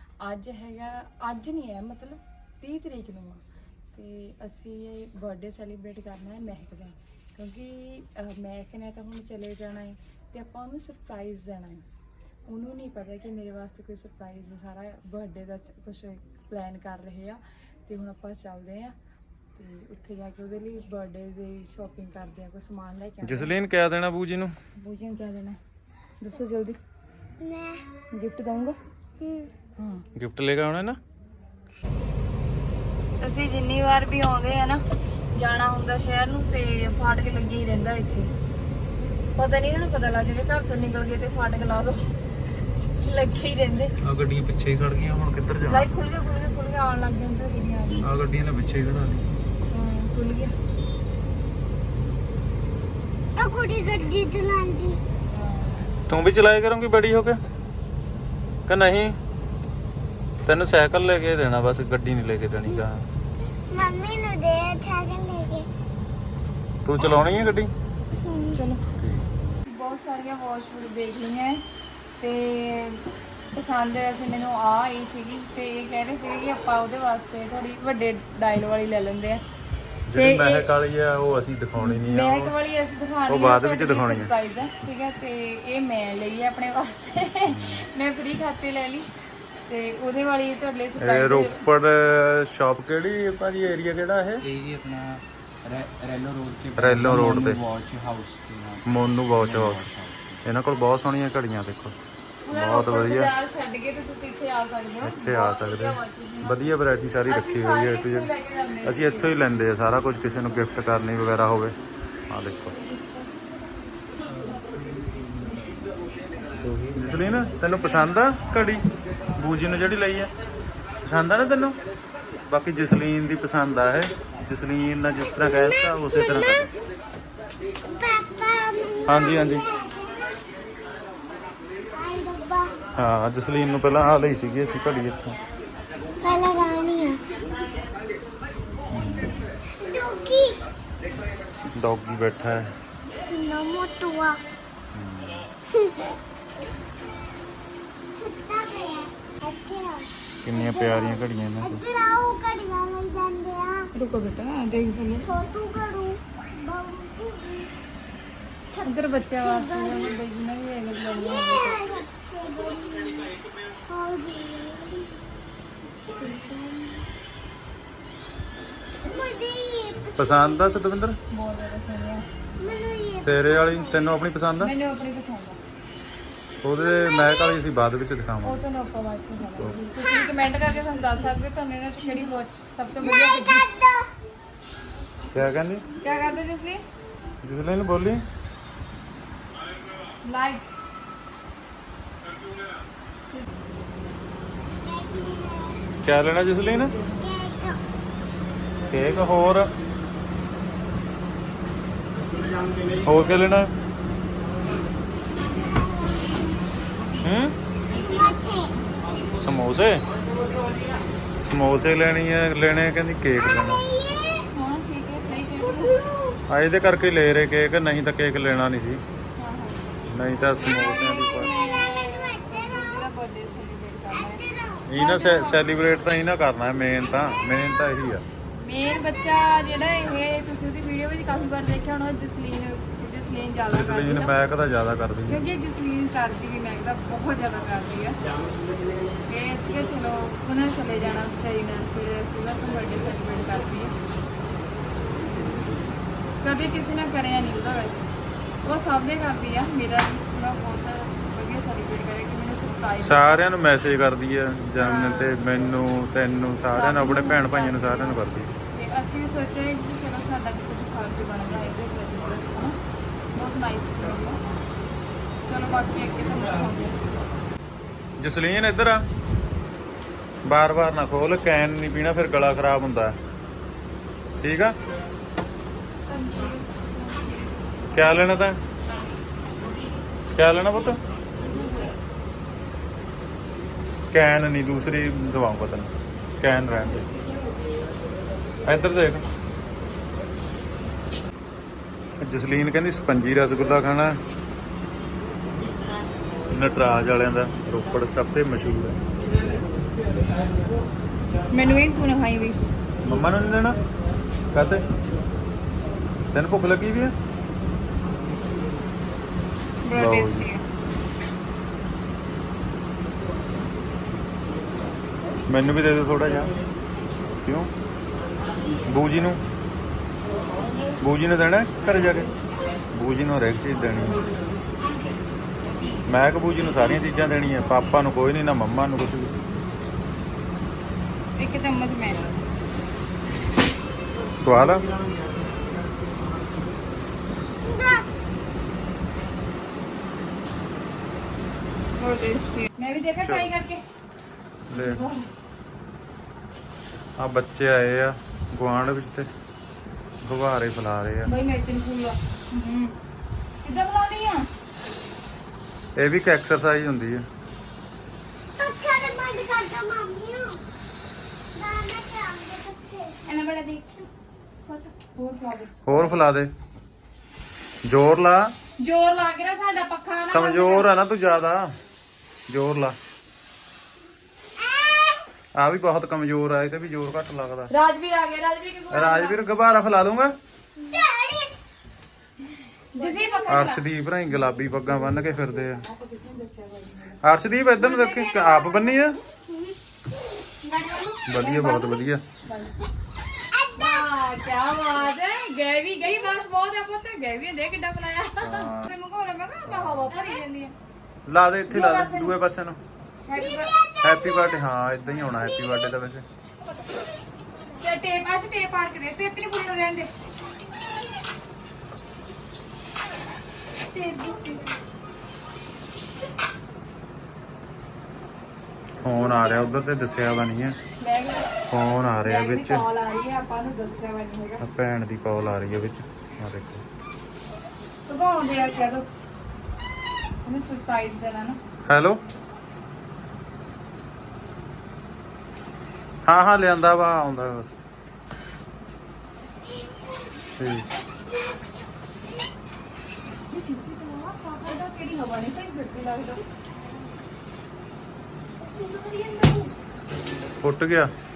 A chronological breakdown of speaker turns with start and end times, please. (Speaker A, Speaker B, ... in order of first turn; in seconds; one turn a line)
Speaker A: 0.2-3.4
Speaker A: 3.9-11.8
Speaker A: 12.5-18.9
Speaker A: 19.6-23.6
Speaker B: 23.2-24.5
Speaker A: 24.8-25.6
Speaker A: 26.2-26.8
Speaker C: 27.4-27.9
Speaker A: 28.1-28.8
Speaker C: 29.2-29.5
Speaker A: 29.8-30.0
Speaker B: 30.1-31.0
Speaker A: 33.2-34.8
Speaker A: 35.4-38.3
Speaker A: 39.4-42.1
Speaker A: 43.0-43.9
Speaker B: 44.0-45.9
Speaker A: 45.7-48.0
Speaker B: 48.0-49.3
Speaker A: 49.7-50.5
Speaker C: 53.4-55.0
Speaker A: 55.3-55.9
Speaker B: 56.1-57.4
Speaker B: 58.7-59.2
Speaker B: 60.5-63.1
Speaker C: 63.7-65.7
Speaker B: 66.8-67.7
Speaker C: 68.2-68.6
Speaker A: 68.5-68.8
Speaker B: 69.0-69.2
Speaker A: 69.7-71.6
Speaker A: 72.2-79.4
Speaker B: 80.1-82.5
Speaker A: 80.1-80.7
Speaker A: 81.8-89.1
Speaker B: 83.3-84.3
Speaker B: 87.5-87.9
Speaker A: 89.7-91.5
Speaker B: 91.0-94.4
Speaker D: 94.4-100.4
Speaker B: 96.8-97.6
Speaker B: 98.9-99.9
Speaker B: 100.4-102.0
Speaker A: 102.5-109.3
Speaker B: 102.5-103.3
Speaker B: 105.0-108.3
Speaker B: 108.8-111.8
Speaker B: 112.3-112.8
Speaker D: 115.0-115.5
Speaker D: 116.6-117.1
Speaker B: 116.9-118.8
Speaker B: 119.4-120.3
Speaker B: 121.0-121.8
Speaker B: 122.5-126.7
Speaker C: 125.4-126.7
Speaker C: 127.8-130.3
Speaker B: 129.1-129.6
Speaker C: 131.9-132.8
Speaker B: 133.0-135.4
Speaker C: 136.2-137.2
Speaker B: 138.9-139.5
Speaker C: 139.7-140.6
Speaker B: 141.8-142.8
Speaker C: 143.3-144.4
Speaker B: 144.9-145.5
Speaker C: 145.7-146.2
Speaker C: 148.2-153.9
Speaker B: 150.4-151.8
Speaker A: 153.9-155.3
Speaker C: 155.2-157.8
Speaker C: 158.7-160.2
Speaker A: 158.8-162.0
Speaker C: 161.1-163.4
Speaker C: 163.9-165.2
Speaker C: 166.0-167.0
Speaker C: 169.0-170.8
Speaker B: 170.2-171.2
Speaker A: 171.3-172.3
Speaker C: 172.6-174.2
Speaker B: 173.2-174.7
Speaker A: 174.6-175.6
Speaker B: 176.6-178.6
Speaker C: 176.8-177.6
Speaker A: 178.4-183.7
Speaker C: 180.1-181.2
Speaker C: 182.1-182.3
Speaker C: 183.0-184.1
Speaker B: 185.3-185.9
Speaker A: 186.0-186.8
Speaker C: 186.0-186.3
Speaker B: 187.4-188.2
Speaker A: 190.2-190.7
Speaker C: 194.7-195.9
Speaker B: 196.0-196.9
Speaker A: 196.9-197.2
Speaker C: 197.2-197.8
Speaker B: 198.9-199.7
Speaker B: 203.0-203.7
Speaker C: 205.4-206.7
Speaker B: 207.2-207.5
Speaker C: 207.9-208.9
Speaker B: 209.4-210.0
Speaker B: 211.4-213.8
Speaker C: 213.5-214.5
Speaker A: 214.5-216.0
Speaker C: 215.6-216.4
Speaker B: 216.5-219.0
Speaker A: 219.4-220.0
Speaker B: 220.1-221.5
Speaker A: 220.5-224.4
Speaker C: 221.4-223.1
Speaker C: 224.1-224.9
Speaker B: 224.9-228.2
Speaker A: 225.0-225.7
Speaker A: 228.6-234.3
Speaker B: 233.7-235.4
Speaker A: 235.3-238.2
Speaker A: 239.3-243.9
Speaker A: 246.4-248.1
Speaker A: 248.6-253.4
Speaker B: 253.0-258.5
Speaker A: 254.8-255.4
Speaker A: 256.6-258.2
Speaker A: 258.7-262.8
Speaker A: 263.4-264.4
Speaker A: 265.5-267.0
Speaker B: 268.2-269.0
Speaker B: 270.4-273.2
Speaker B: 274.4-274.8
Speaker A: 276.0-277.4
Speaker B: 277.9-278.6
Speaker B: 280.4-281.0
Speaker B: 284.1-285.9
Speaker B: 286.4-287.1
Speaker B: 288.6-289.2
Speaker B: 292.2-294.2
Speaker B: 296.5-299.0
Speaker A: 301.5-302.6
Speaker B: 303.0-303.8
Speaker B: 304.5-304.8
Speaker B: 306.3-307.1
Speaker A: 309.8-310.6
Speaker B: 309.9-310.5
Speaker B: 315.5-316.5
Speaker B: 317.4-317.7
Speaker B: 318.9-319.4
Speaker B: 321.0-322.3
Speaker B: 322.9-324.2
Speaker B: 326.1-329.3
Speaker A: 331.4-332.2
Speaker B: 334.4-334.9
Speaker C: 337.6-338.1
Speaker A: 342.0-343.8
Speaker B: 343.2-343.5
Speaker B: 344.7-345.1
Speaker A: 344.7-345.2
Speaker B: 347.2-349.3
Speaker B: 350.2-351.3
Speaker A: 351.2-353.0
Speaker A: 353.6-354.5
Speaker B: 356.0-357.3
Speaker C: 358.6-360.6
Speaker C: 361.6-363.3
Speaker A: 363.3-364.1
Speaker A: 364.7-366.2
Speaker B: 365.9-366.5
Speaker B: 367.9-368.5
Speaker A: 368.8-370.9
Speaker B: 370.3-371.7
Speaker B: 372.5-373.0
Speaker C: 374.6-375.3
Speaker B: 375.6-377.7
Speaker A: 377.7-379.4
Speaker B: 378.9-380.4
Speaker C: 380.8-381.6
Speaker A: 382.9-383.8
Speaker B: 383.5-385.8
Speaker A: 384.5-387.2
Speaker B: 387.2-389.2
Speaker A: 387.8-389.0
Speaker C: 389.5-389.8
Speaker A: 390.9-392.8
Speaker B: 391.3-392.2
Speaker C: 393.5-394.1
Speaker A: 393.8-400.7
Speaker B: 398.4-398.9
Speaker B: 399.7-400.1
Speaker C: 400.1-400.4
Speaker B: 401.3-402.8
Speaker A: 401.7-402.4
Speaker A: 403.3-403.7
Speaker C: 403.3-404.6
Speaker B: 404.0-406.2
Speaker C: 405.3-405.9
Speaker A: 407.8-410.1
Speaker B: 419.0-420.8
Speaker A: 421.0-421.5
Speaker B: 421.7-422.9
Speaker A: 422.2-424.6
Speaker B: 424.6-426.8
Speaker A: 428.1-429.1
Speaker A: 430.4-431.6
Speaker B: 431.9-432.2
Speaker B: 436.3-437.8
Speaker B: 440.6-440.9
Speaker A: 443.5-446.4
Speaker B: 450.6-451.1